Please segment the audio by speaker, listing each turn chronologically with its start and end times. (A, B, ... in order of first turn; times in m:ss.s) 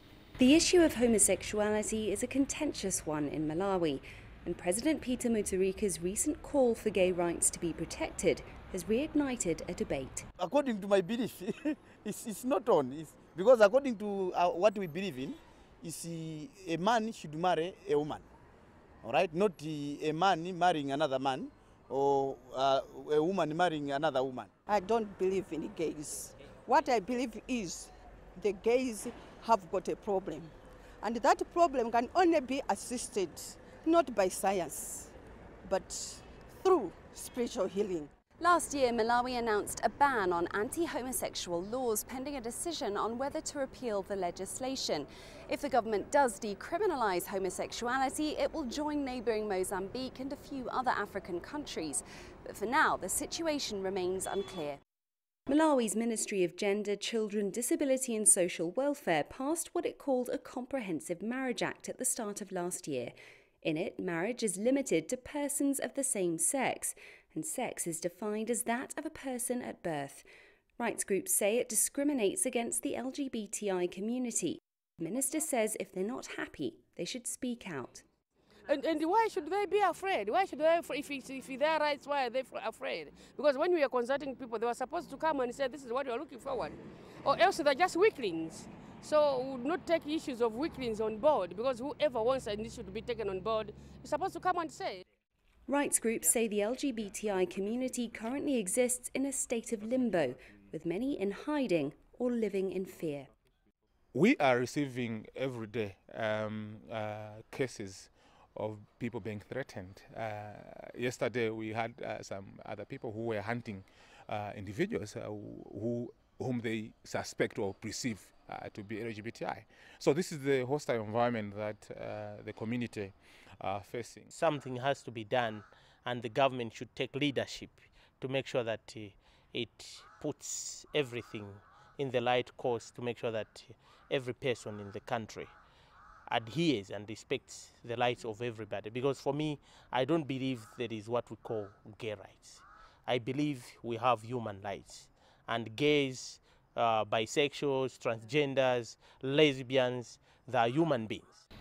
0:00.4-0:10.3 A
0:10.4-0:18.3 B
0:19.0-0:24.5 B
0:24.7-0:35.1 C
0:35.6-0:38.1 C
0:38.4-0:54.8 A
0:55.5-1:10.2 A
1:10.8-1:18.1 A
1:18.7-1:35.0 D
1:35.7-1:43.3 A
1:44.1-2:04.3 E
2:04.3-2:15.6 F
2:16.3-2:31.4 F